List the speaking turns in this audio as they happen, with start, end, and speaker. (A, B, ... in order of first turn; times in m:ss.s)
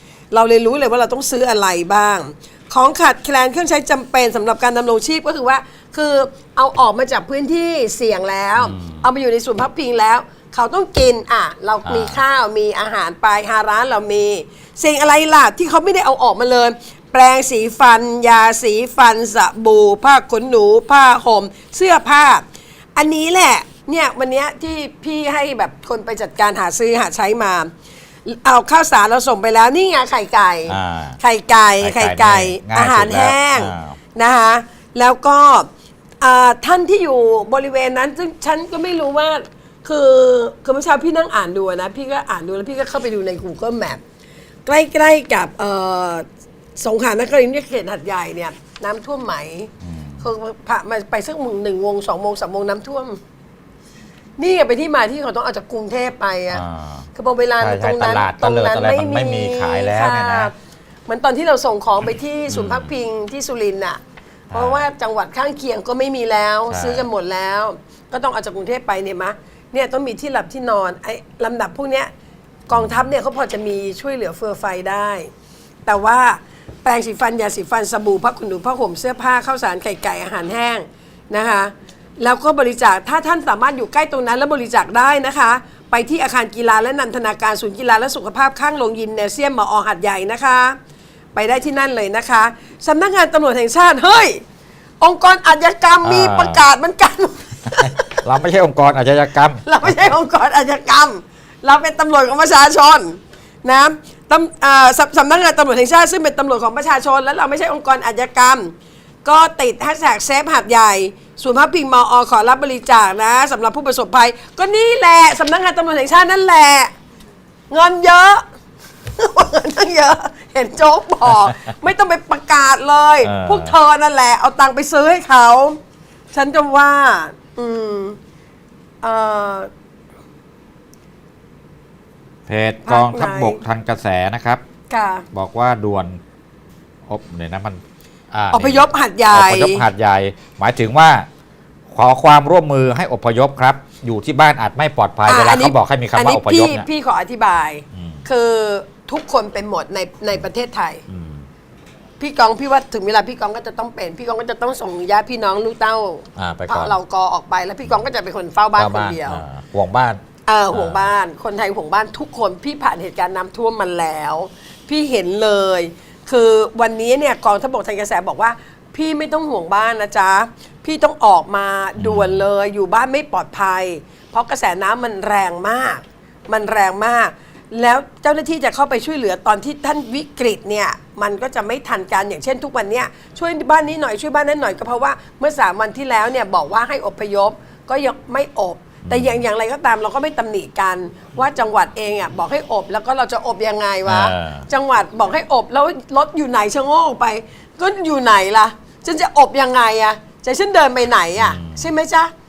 0:00.3-0:22.4 A
0:08.6-0:09.0 B
0:11.8-0:12.2 B
0:23.0-0:27.7 A
0:28.2-0:35.7 A
0:30.7-0:31.2 B
0:31.8-0:34.0 B
0:36.2-0:44.0 A
0:44.6-0:46.2 A
0:46.8-0:53.2 A
0:49.8-0:50.2 B
0:54.4-1:00.5 A
0:56.5-0:57.0 B
0:57.6-1:00.5 B
1:01.1-1:04.0 A
1:02.5-1:02.9 B
1:04.5-1:04.8 B
1:04.5-1:12.1 A
1:06.7-1:07.0 B
1:12.7-1:15.3 A
1:15.8-1:30.8 A
1:31.3-1:34.4 A
1:35.0-1:38.2 A
1:36.0-1:36.6 B
1:38.1-1:40.1 B
1:39.6-1:56.9 A
1:57.7-1:58.4 A
1:59.1-2:05.8 A
2:03.2-2:03.8 B
2:06.3-2:08.2 A
2:09.0-2:09.7 A
2:12.5-2:14.6 B
2:12.8-2:13.6 A
2:14.9-2:15.3 A
2:15.3-2:16.2 B
2:17.1-2:17.8 B
2:18.3-2:21.3 B
2:18.5-2:19.8 A
2:21.9-2:26.8 B
2:25.2-2:31.0 A
2:27.9-2:28.2 B
2:31.1-2:31.4 B
2:32.2-2:39.4 A
2:36.4-2:37.0 B
2:38.8-2:40.2 B
2:40.4-3:22.3 A
2:40.7-2:41.1 B
2:52.0-2:52.4 B
3:09.0-3:09.4 B
3:14.0-3:14.7 B
3:21.4-3:21.9 B